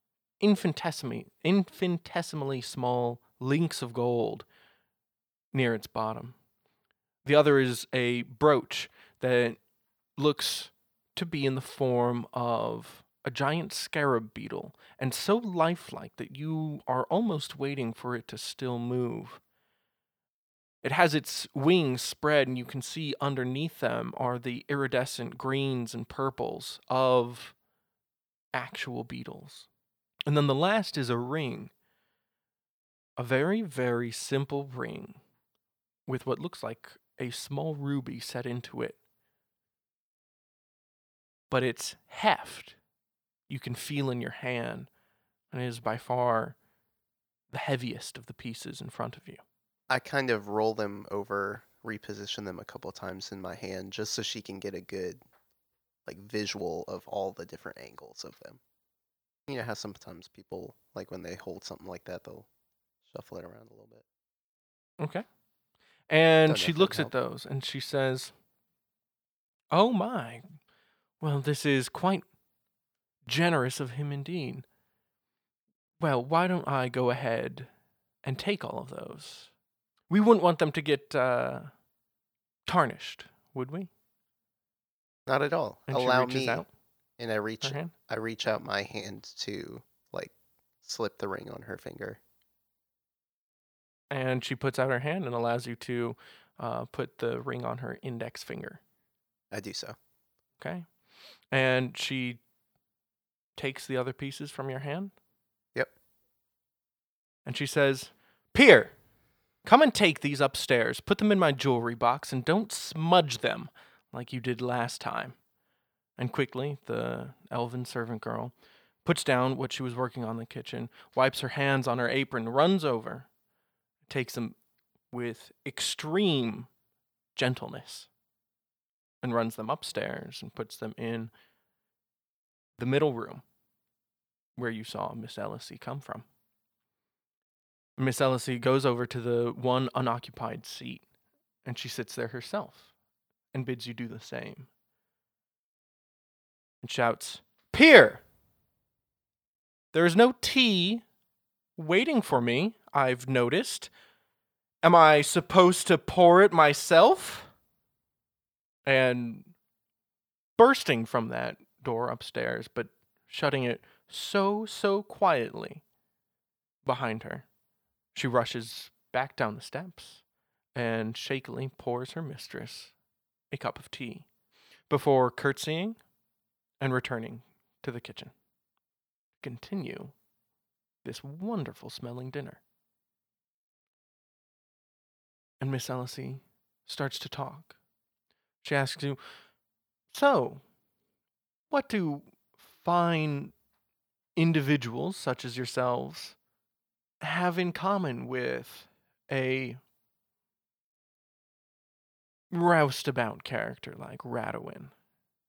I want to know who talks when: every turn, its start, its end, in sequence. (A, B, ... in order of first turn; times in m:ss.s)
0:00.4-0:04.5 A
0:05.5-0:06.4 A
0:07.2-0:09.6 A
0:10.2-0:19.4 A
0:20.8-0:27.6 A
0:28.5-0:29.7 A
0:30.3-0:31.7 A
0:33.2-0:35.2 A
0:36.1-0:39.0 A
0:41.5-0:42.8 A
0:43.5-0:44.9 A
0:45.5-0:46.6 A
0:47.5-0:49.4 A
0:49.9-0:55.2 B
0:56.1-0:58.6 B
0:59.5-1:02.5 B
1:03.1-1:04.0 B
1:05.0-1:05.2 A
1:06.1-1:08.3 A
1:06.5-1:07.1 B
1:09.7-1:10.4 A
1:11.2-1:12.2 A
1:13.3-1:14.6 A
1:16.0-1:17.7 A
1:18.2-1:19.5 A
1:20.1-1:21.7 A
1:22.7-1:23.9 A
1:25.3-1:26.6 B
1:25.9-1:26.7 A
1:27.2-1:32.2 B
1:27.6-1:27.9 A
1:34.1-1:38.8 A
1:39.5-1:40.0 B
1:40.6-1:40.9 A
1:41.5-1:42.4 A
1:43.6-1:45.1 A
1:47.5-1:48.9 A
1:49.6-1:55.4 A
1:56.2-1:58.5 A
1:59.0-2:03.3 A
2:04.1-2:04.6 A
2:05.1-2:06.7 A
2:07.4-2:08.1 A
2:09.2-2:11.3 A
2:12.8-2:13.4 A
2:14.6-2:16.3 A
2:18.0-2:21.0 A
2:21.6-2:22.9 A
2:23.5-2:24.7 A
2:26.8-2:28.2 A
2:29.9-2:31.0 A
2:31.8-2:33.9 A
2:34.8-2:37.5 A
2:38.9-2:39.5 A
2:40.6-2:45.8 A
2:46.8-2:47.5 A
2:48.1-2:50.2 A
2:50.8-2:52.9 A
2:53.5-2:54.3 A
2:54.9-2:56.0 A
2:56.8-2:58.3 A
2:59.4-3:00.1 A
3:01.0-3:02.6 A
3:05.6-3:07.8 A
3:08.6-3:09.2 A
3:10.1-3:10.6 A
3:11.7-3:12.3 A
3:12.8-3:13.5 A
3:14.4-3:16.4 A
3:17.2-3:19.8 A
3:22.5-3:24.9 A